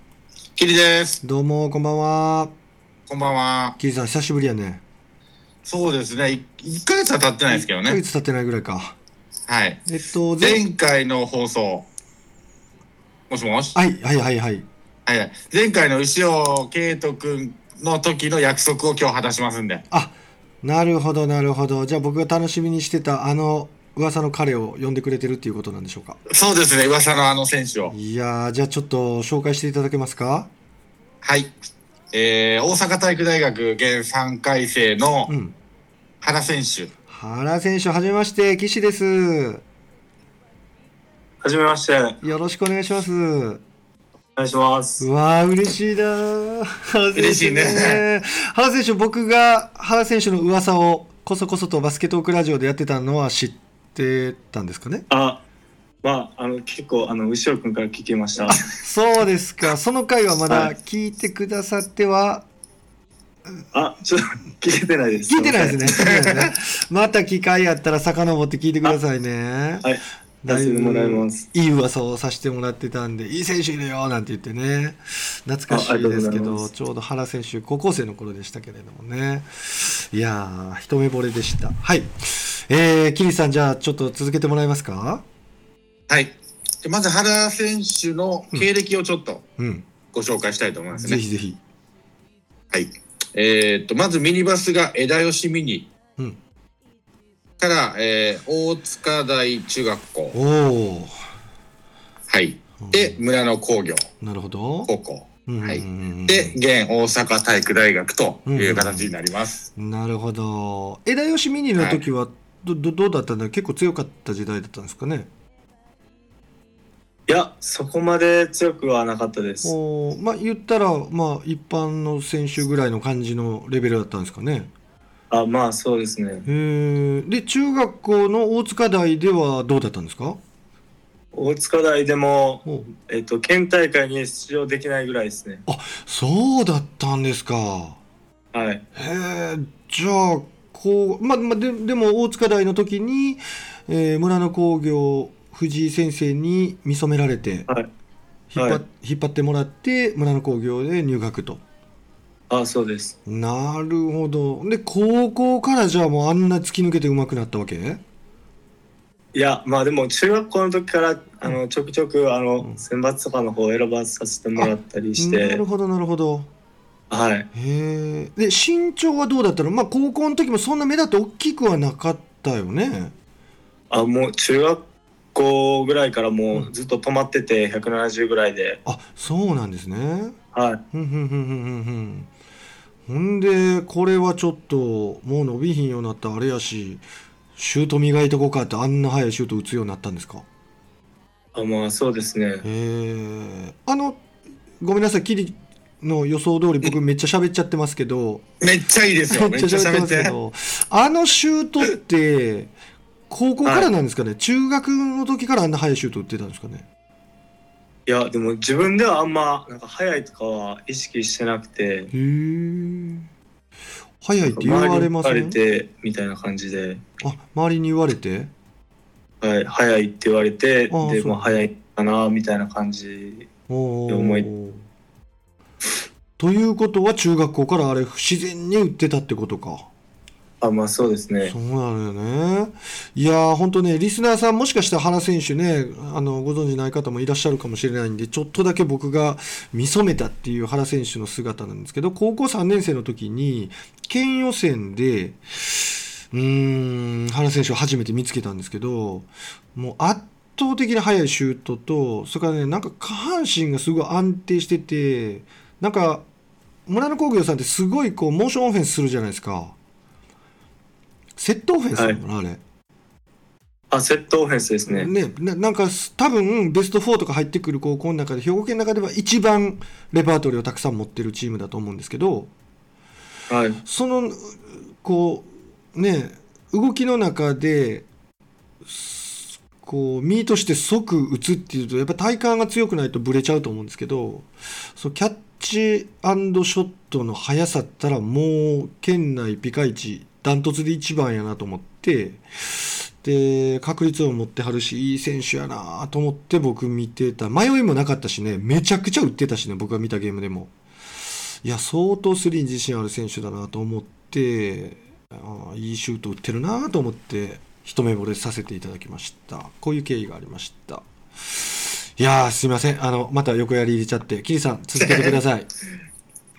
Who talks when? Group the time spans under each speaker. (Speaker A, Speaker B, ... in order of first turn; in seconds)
Speaker A: 0.6-1.2, 3.1-3.8, 5.6-8.0, 9.5-9.8, 10.4-11.8, 13.3-13.8, 15.1-19.8, 26.3-27.9, 31.2-31.5, 32.1-35.3, 36.2-36.9, 47.1-48.0, 65.9-66.5, 86.1-89.4, 90.1-91.2, 92.7-95.9, 97.6-100.3, 102.3-104.1, 104.9-109.7, 111.8-112.0, 198.6-200.3, 315.0-315.4
Speaker B: 1.2-2.5, 3.8-4.8, 7.5-8.9, 9.9-10.6, 13.7-14.7, 19.9-26.2, 27.9-30.5, 35.3-35.5, 37.1-39.6, 42.2-43.6, 45.0-55.0, 58.5-62.5, 65.3-69.9, 70.4-85.2, 89.6-89.8, 90.9-91.6, 100.3-101.3, 102.8-103.2, 104.2-104.9, 105.5-106.6, 108.5-109.1, 109.8-115.3, 119.6-124.7, 126.5-130.4, 135.7-138.0, 138.9-147.7, 148.5-151.6, 153.2-158.0, 164.6-166.5, 167.5-173.1, 178.8-180.3, 180.9-182.3, 183.1-187.0, 187.6-190.4, 192.6-194.2, 194.8-198.4, 199.3-202.7, 203.3-206.8, 212.1-213.3, 214.2-215.6, 217.2-218.5, 220.9-221.6, 223.7-224.8, 226.4-229.9, 231.4-256.2, 256.9-259.8, 261.4-262.6, 264.9-272.5, 273.8-278.1, 278.8-300.7, 301.6-315.7
Speaker C: 41.4-42.2, 44.4-45.0, 55.1-55.4, 56.0-58.6, 63.7-65.9, 69.8-71.4, 75.7-76.7, 117.3-119.7, 125.3-126.5, 131.3-135.6, 138.5-138.8, 148.6-148.8, 152.5-153.1, 159.3-165.6, 167.1-167.5, 173.9-174.8, 175.3-178.8, 180.5-180.8, 191.5-192.6, 208.1-212.1, 214.4-217.0, 219.4-223.5, 224.1-224.5, 230.6-231.5, 263.9-265.1, 273.5-273.8